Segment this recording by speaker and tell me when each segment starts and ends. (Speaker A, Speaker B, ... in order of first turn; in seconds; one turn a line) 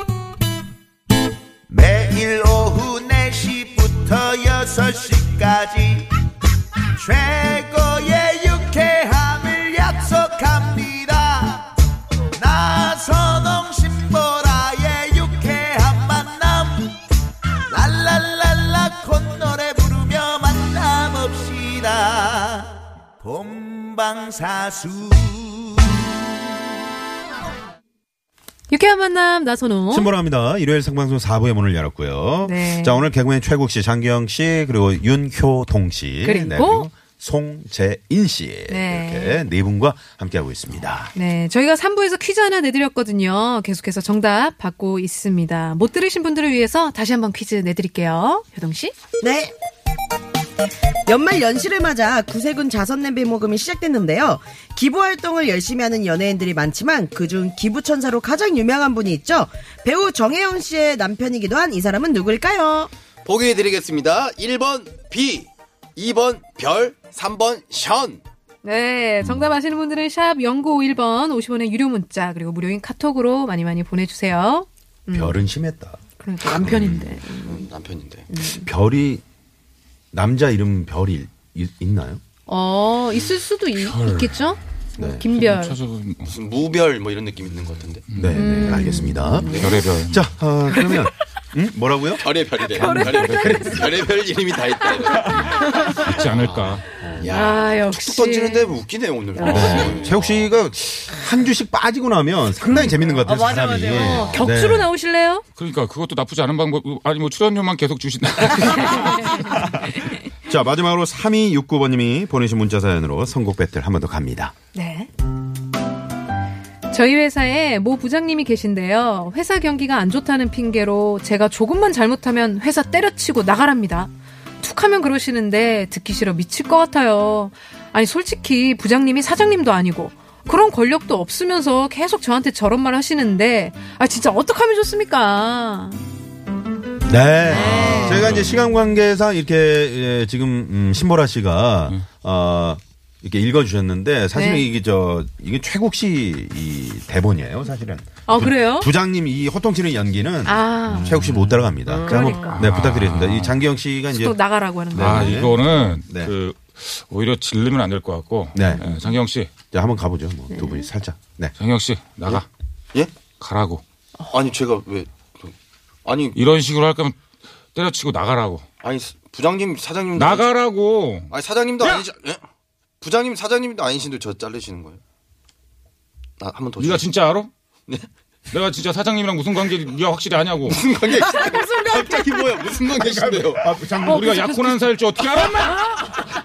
Speaker A: 1.7-6.1
Speaker A: 7.0-11.7
Speaker A: 12.3-17.0
Speaker A: 17.7-26.0
Speaker B: 28.7-30.1
Speaker C: 29.9-41.1
Speaker B: 32.4-33.0
Speaker B: 36.2-36.9
Speaker B: 38.7-39.4
Speaker B: 41.1-48.9
Speaker D: 49.2-49.5
Speaker D: 51.1-62.9
Speaker E: 63.2-68.2
Speaker B: 68.6-75.5
Speaker C: 75.1-77.1
Speaker B: 76.2-77.7
Speaker E: 77.5-78.2
Speaker B: 78.3-78.7
Speaker C: 78.4-79.2
Speaker C: 80.1-82.2
Speaker B: 82.5-85.8
Speaker F: 83.8-84.3
Speaker C: 85.0-85.3
Speaker F: 85.3-86.3
Speaker E: 86.2-88.0
Speaker F: 88.1-88.6
Speaker C: 88.1-93.6
Speaker B: 88.3-89.8
Speaker F: 89.5-90.3
Speaker B: 90.7-91.1
Speaker E: 92.2-95.3
Speaker B: 92.7-94.0
Speaker F: 93.1-93.7
Speaker B: 94.8-96.2
Speaker F: 95.3-96.9
Speaker E: 96.4-100.5
Speaker B: 97.2-98.8
Speaker B: 99.3-99.9
Speaker C: 99.4-104.9
Speaker B: 102.6-105.4
Speaker F: 105.5-109.9
Speaker B: 108.7-109.4
Speaker C: 110.5-114.5
Speaker B: 114.7-115.1
Speaker B: 116.9-136.0
Speaker C: 137.1-156.3
Speaker B: 137.4-138.4
Speaker F: 137.5-138.6
Speaker B: 144.3-144.7
Speaker B: 148.2-148.9
Speaker B: 150.4-151.3
Speaker F: 150.9-153.6
Speaker B: 152.0-152.6
Speaker B: 154.1-155.5
Speaker F: 154.9-159.5
Speaker C: 158.5-158.8
Speaker C: 159.7-161.5
Speaker B: 160.5-160.9
Speaker F: 161.6-162.5
Speaker F: 163.4-163.8
Speaker E: 164.3-165.5
Speaker E: 166.0-166.4
Speaker F: 166.3-167.2
Speaker F: 167.7-168.6
Speaker E: 168.8-170.5
Speaker F: 170.1-172.1
Speaker E: 171.3-172.4
Speaker E: 173.0-175.0
Speaker E: 176.4-177.1
Speaker F: 176.8-177.5
Speaker F: 178.5-180.8
Speaker E: 180.7-183.7
Speaker B: 181.2-182.5
Speaker F: 182.6-185.9
Speaker C: 183.6-184.4
Speaker B: 184.0-184.9